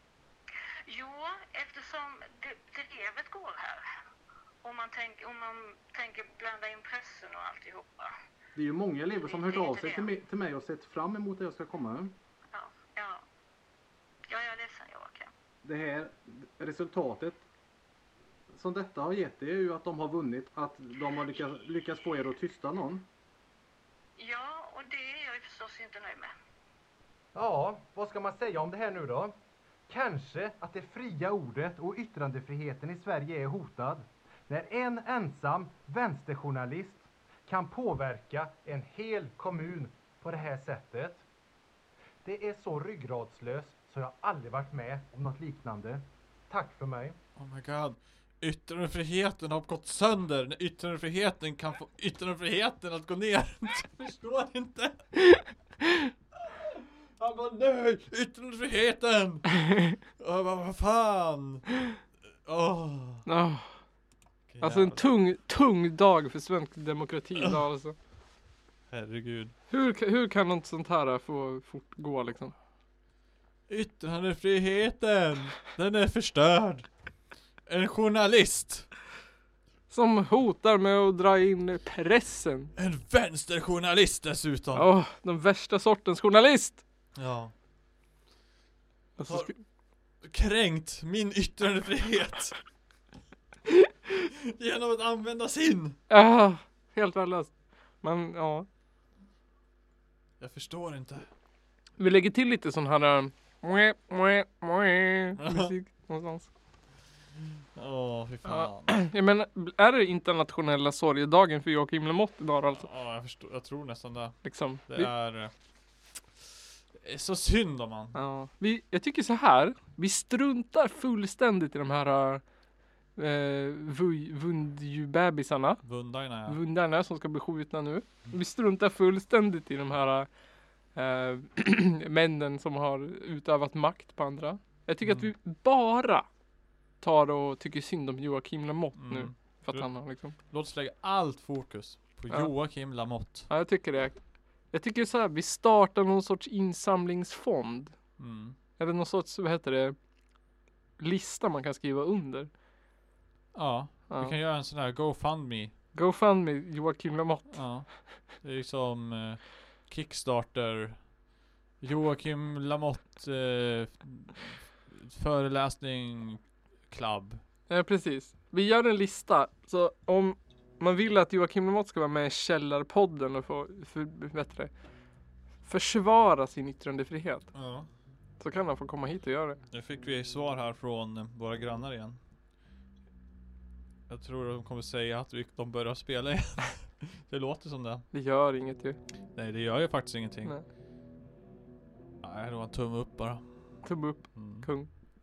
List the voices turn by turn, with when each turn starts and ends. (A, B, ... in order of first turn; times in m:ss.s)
0:00.9-0:03.8 A
0:04.6-0:08.1 A
0:08.5-0:12.2 B
0:09.2-0:10.1 A
0:12.5-0:13.2 A
0:14.3-0:15.3 A
0:15.6-0:17.4 B
0:18.5-0:23.1 B
0:24.2-0:26.3 A
0:27.3-0:29.3 C
0:29.9-0:41.2 C
0:42.2-0:47.2 C
0:47.4-0:55.1 D
0:56.4-1:03.2 D
1:03.2-1:03.7 E
1:04.5-1:05.1 D
1:04.6-1:07.9 E
1:08.9-1:09.5 D
1:09.7-1:12.5 E
1:13.7-1:16.9 D
1:17.6-1:18.9 D
1:19.9-1:22.7 E
1:22.8-1:24.9 D
1:24.7-1:26.8 E
1:27.2-1:27.5 D
1:29.2-1:29.6 E
1:29.2-1:29.6 D
1:30.2-1:32.6 D
1:34.2-1:36.0 D
1:36.1-1:38.6 E
1:40.4-1:41.3 D
1:42.0-1:46.5 E
1:45.4-1:45.7 D
1:47.7-1:49.0 D
1:48.4-1:52.9 E
1:52.7-1:55.5 D
1:54.4-1:55.1 E
1:56.9-1:58.2 D
1:58.1-2:02.4 E
2:03.2-2:05.8 E
2:05.8-2:06.6 D
2:06.5-2:10.3 E
2:10.9-2:16.2 E
2:15.0-2:15.3 D
2:17.0-2:20.3 E
2:19.0-2:23.5 D
2:23.5-2:28.0 E
2:28.2-2:28.6 D
2:28.8-2:29.9 E
2:31.0-2:32.5 E
2:33.5-2:35.7 D
2:35.9-2:37.6 E
2:37.5-2:41.1 D
2:41.8-2:47.4 D
2:47.7-2:54.8 E
2:55.6-2:57.5 E
2:57.5-2:57.9 D
2:58.4-2:59.6 E
2:59.7-3:02.2 D
3:04.1-3:08.0 D
3:08.1-3:09.0 E
3:09.3-3:10.5 D
3:12.2-3:14.7 D
3:13.8-3:14.9 E